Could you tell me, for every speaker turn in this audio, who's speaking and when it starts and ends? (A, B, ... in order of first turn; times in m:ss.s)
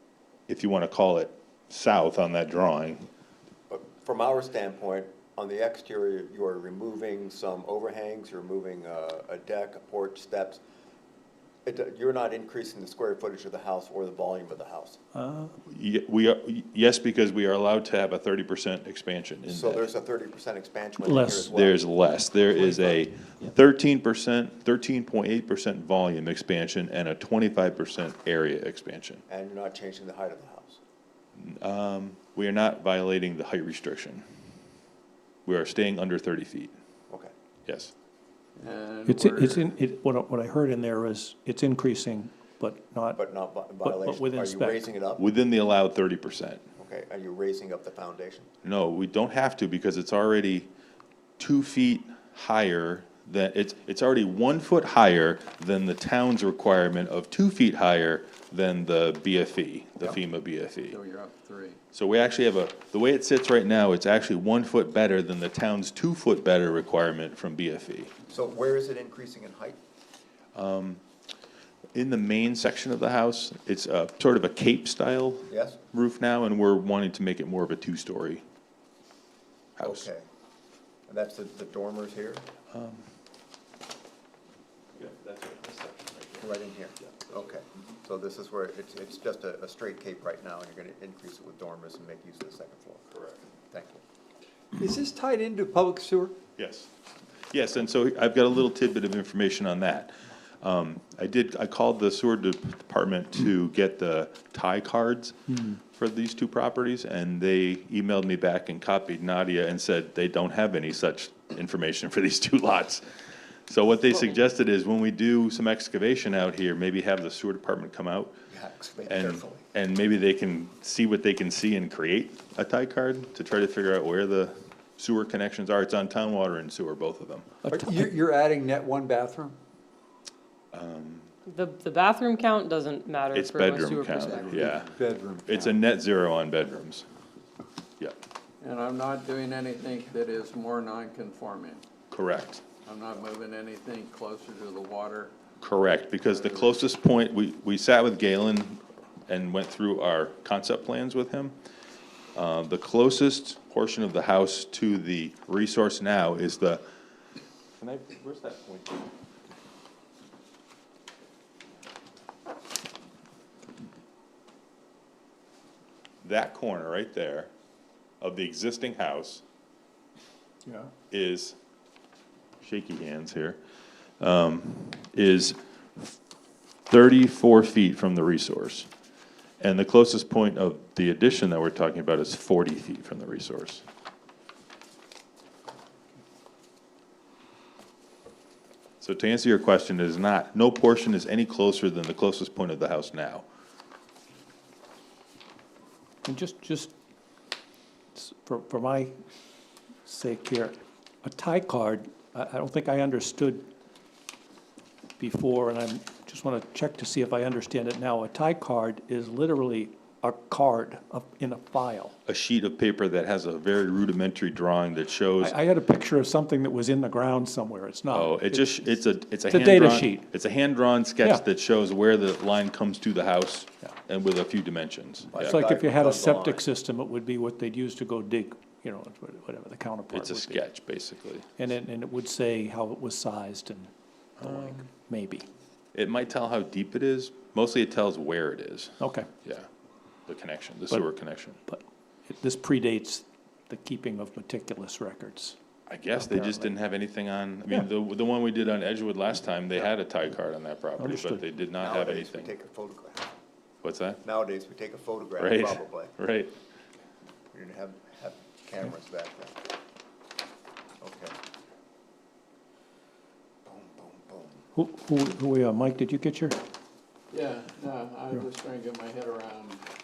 0:00.5-0:03.1 A
0:03.7-0:10.6 B
0:11.7-0:15.0 B
0:15.2-0:15.6 C
0:15.7-0:19.9 A
0:19.5-0:21.8 B
0:21.0-0:21.5 C
0:21.6-0:29.2 A
0:29.3-0:30.8 B
0:31.4-0:34.2 A
0:35.5-0:36.7 A
0:37.7-0:37.9 A
0:38.6-0:39.7 D
0:39.1-0:43.2 C
0:43.2-0:45.2 B
0:43.8-0:44.8 C
0:45.2-0:46.6 A
0:46.8-0:48.5 B
0:48.6-0:50.7 A
0:51.4-1:01.0 A
1:00.9-1:01.8 D
1:01.9-1:08.1 A
1:08.3-1:09.8 B
1:10.6-1:11.0 A
1:12.0-1:18.4 A
1:15.5-1:15.8 B
1:19.8-1:20.1 A
1:19.8-1:20.2 B
1:21.1-1:22.5 B
1:22.7-1:23.0 A
1:25.0-1:26.5 A
1:26.4-1:33.1 B
1:27.0-1:27.5 A
1:33.1-1:33.4 A
1:33.7-1:34.0 B
1:34.7-1:36.4 E
1:36.6-1:36.9 A
1:37.5-1:53.0 A
1:53.7-1:58.4 A
1:58.5-1:59.6 B
1:59.1-2:07.5 A
2:07.6-2:09.6 E
2:10.7-2:11.3 A
2:11.5-2:14.6 F
2:13.3-2:14.9 A
2:14.4-2:15.7 E
2:15.5-2:17.0 A
2:18.6-2:21.8 D
2:22.1-2:22.6 A
2:22.8-2:25.3 D
2:25.6-2:31.5 A
2:26.3-2:26.8 D
2:32.4-2:36.8 A
2:37.8-2:39.0 A
2:46.2-2:47.5 A
2:48.2-2:49.4 A
2:51.1-2:51.6 A
2:52.6-2:53.6 A
2:54.2-2:55.6 A
2:56.9-2:58.9 A
2:59.6-3:03.8 A
3:09.0-3:13.4 A
3:16.2-3:16.9 C
3:18.2-3:19.1 C
3:20.1-3:23.7 C
3:25.2-3:32.2 C
3:32.3-3:35.6 A
3:35.4-3:38.7 C
3:38.1-3:45.6 A
3:39.5-3:40.3 C
3:45.3-3:46.7 B
3:45.5-3:50.7 C
3:50.1-3:51.5 A
3:51.6-3:53.9 C
3:54.4-3:54.9 A
3:54.4-3:55.5 C
3:55.9-3:59.7 A
3:59.0-3:59.3 C
4:00.3-4:01.6 A
4:01.7-4:05.6 C
4:05.9-4:12.5 A
4:06.2-4:06.7 C
4:11.0-4:11.4 C
4:11.8-4:13.3 B
4:13.8-4:14.2 A
4:14.2-4:16.1 B
4:15.4-4:16.5 A
4:17.5-4:19.6 B
4:21.0-4:21.4 B
4:24.8-4:26.6 C
4:27.3-4:29.8 D